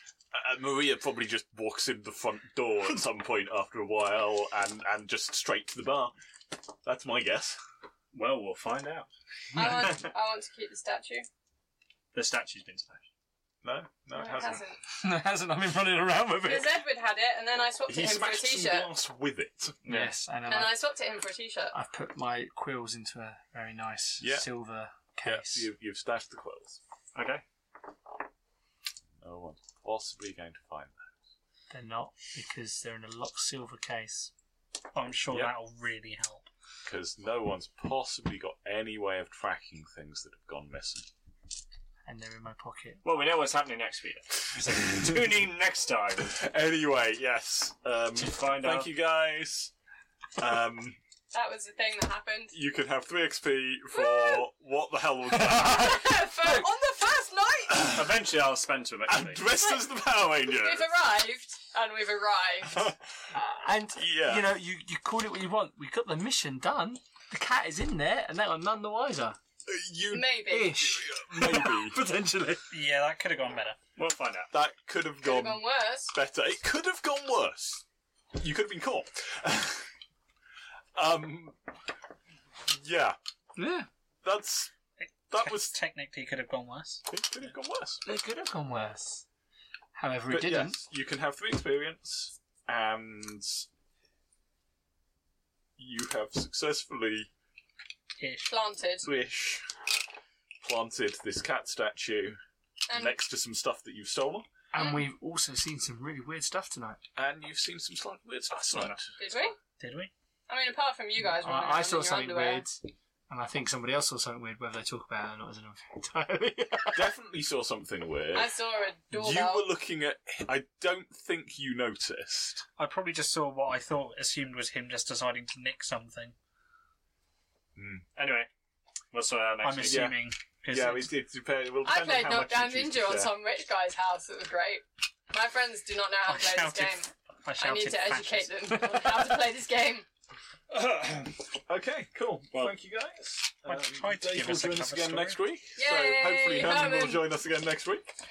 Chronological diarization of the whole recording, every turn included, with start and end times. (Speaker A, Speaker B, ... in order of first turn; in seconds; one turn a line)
Speaker A: 0.3-6.1
Speaker A: 6.8-7.6
Speaker B: 8.1-9.1
Speaker C: 9.5-11.3
Speaker B: 12.1-13.0
Speaker A: 13.6-14.6
Speaker C: 14.2-14.8
Speaker D: 15.0-16.8
Speaker C: 16.4-18.9
Speaker A: 17.9-19.8
Speaker B: 19.8-20.2
Speaker D: 19.9-20.8
Speaker C: 20.5-21.8
Speaker D: 21.7-25.7
Speaker A: 24.2-24.5
Speaker A: 25.2-26.8
Speaker B: 27.1-27.4
Speaker A: 29.2-31.1
Speaker D: 31.7-34.3
Speaker E: 34.9-36.5
Speaker A: 36.9-41.1
Speaker D: 42.1-43.0
Speaker B: 43.0-46.4
Speaker A: 44.8-45.2
Speaker A: 46.2-49.7
Speaker B: 48.1-48.9
Speaker A: 50.4-51.0
Speaker C: 51.3-52.5
Speaker A: 52.5-56.0
Speaker C: 53.9-54.5
Speaker C: 55.5-57.9
Speaker D: 56.4-56.7
Speaker A: 57.7-58.1
Speaker B: 57.8-59.5
Speaker A: 59.1-60.9
Speaker C: 59.5-59.9
Speaker C: 60.4-62.9
Speaker A: 62.7-63.0
Speaker D: 63.3-69.4
Speaker A: 64.0-64.5
Speaker A: 69.7-72.0
Speaker C: 70.1-70.8
Speaker D: 70.5-72.7
Speaker E: 72.7-73.8
Speaker B: 74.0-74.5
Speaker A: 74.5-77.8
Speaker C: 75.2-76.1
Speaker A: 78.4-79.9
Speaker A: 81.0-81.6
Speaker A: 82.7-83.2
Speaker D: 83.6-83.9
Speaker A: 84.2-84.7
Speaker E: 85.0-87.1
Speaker A: 85.3-85.7
Speaker A: 87.1-88.0
Speaker D: 88.0-89.3
Speaker D: 90.0-90.8
Speaker A: 90.3-93.7
Speaker A: 95.8-97.3
Speaker E: 98.2-98.5
Speaker C: 98.5-99.1
Speaker A: 99.0-99.6
Speaker A: 100.6-102.4
Speaker C: 102.9-103.2
Speaker A: 102.9-104.5
Speaker D: 104.7-107.0
Speaker C: 104.8-105.1
Speaker A: 107.2-109.0
Speaker B: 108.5-109.4
Speaker C: 109.2-109.5
Speaker E: 109.8-110.1
Speaker C: 110.5-112.7
Speaker D: 111.2-117.1
Speaker A: 116.9-118.5
Speaker C: 118.3-119.7
Speaker A: 119.1-122.6
Speaker E: 122.8-126.3
Speaker A: 127.8-128.1
Speaker B: 128.2-128.5
Speaker B: 129.1-130.1
Speaker E: 129.6-131.1
Speaker A: 129.8-133.4
Speaker C: 131.8-137.1
Speaker E: 136.3-138.6
Speaker C: 137.6-140.1
Speaker D: 138.7-139.4
Speaker B: 140.7-141.1
Speaker A: 141.1-148.2
Speaker E: 143.7-145.4
Speaker C: 145.8-147.3